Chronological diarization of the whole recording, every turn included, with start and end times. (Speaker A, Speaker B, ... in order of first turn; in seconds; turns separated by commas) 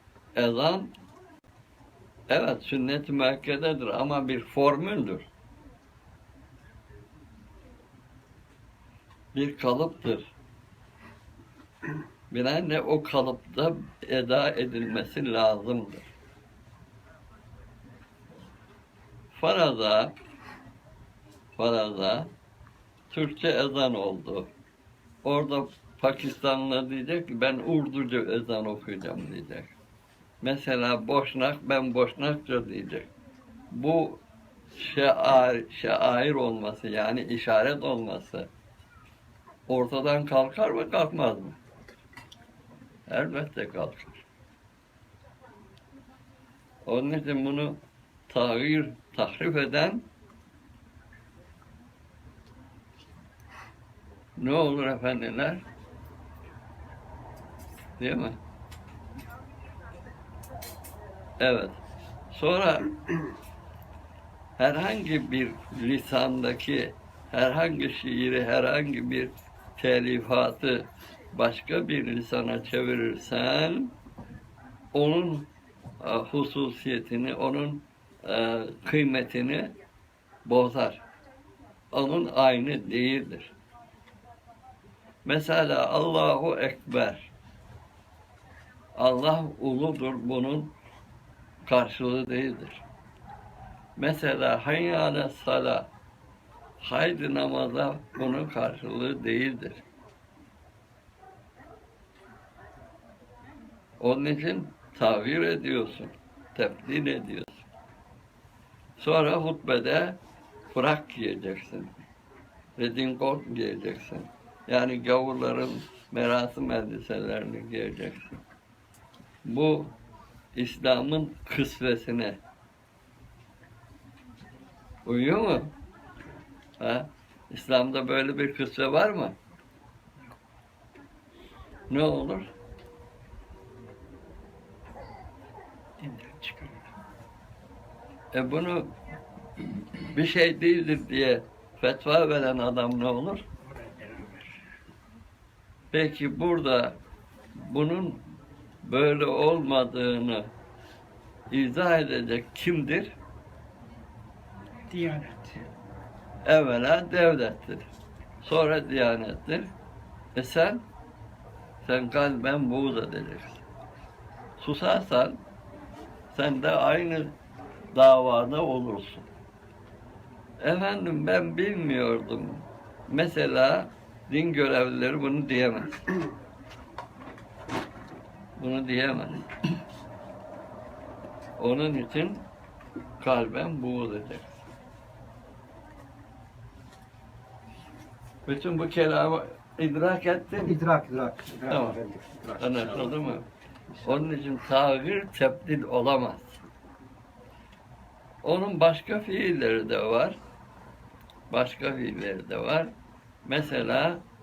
Speaker A: 0.3-0.9, Speaker A: 2.3-5.3, Speaker A: 9.3-10.3, Speaker A: 12.3-16.1, Speaker A: 19.3-20.1, Speaker A: 21.6-22.3, Speaker A: 23.1-24.5, Speaker A: 25.2-29.7, Speaker A: 30.4-33.1, Speaker A: 33.7-34.2, Speaker A: 34.7-38.5, Speaker A: 39.7-41.6, Speaker A: 43.1-44.2, Speaker A: 46.8-50.0, Speaker A: 54.4-55.6, Speaker A: 58.0-58.4, Speaker A: 61.4-61.8, Speaker A: 62.3-63.0, Speaker A: 64.6-73.9, Speaker A: 74.9-75.5, Speaker A: 76.0-79.7, Speaker A: 80.4-81.0, Speaker A: 81.9-83.5, Speaker A: 85.2-87.3, Speaker A: 88.9-90.7, Speaker A: 91.7-92.8, Speaker A: 94.0-95.9, Speaker A: 96.8-99.8, Speaker A: 104.0-107.7, Speaker A: 109.0-110.2, Speaker A: 110.7-111.9, Speaker A: 112.8-118.4, Speaker A: 119.4-119.9, Speaker A: 120.5-122.4, Speaker A: 125.0-125.7, Speaker A: 126.8-129.3, Speaker A: 131.9-132.5, Speaker B: 136.0-136.9, Speaker A: 138.3-138.9, Speaker A: 140.0-143.4, Speaker B: 143.6-144.6, Speaker A: 145.9-147.0, Speaker A: 147.5-148.2, Speaker A: 148.8-150.5, Speaker A: 151.5-153.2, Speaker B: 154.9-155.7, Speaker A: 156.4-157.9, Speaker A: 158.4-159.7, Speaker A: 160.3-160.8, Speaker A: 161.8-163.6, Speaker A: 164.6-165.4, Speaker A: 166.3-167.3, Speaker A: 167.9-169.3, Speaker A: 170.6-176.0, Speaker A: 178.6-179.5, Speaker A: 181.6-182.4, Speaker A: 183.2-184.6, Speaker A: 188.4-190.8, Speaker C: 190.6-193.2, Speaker A: 191.7-192.0, Speaker A: 192.6-193.5, Speaker A: 194.0-196.6, Speaker A: 198.4-200.4, Speaker A: 201.5-202.9, Speaker A: 203.4-204.2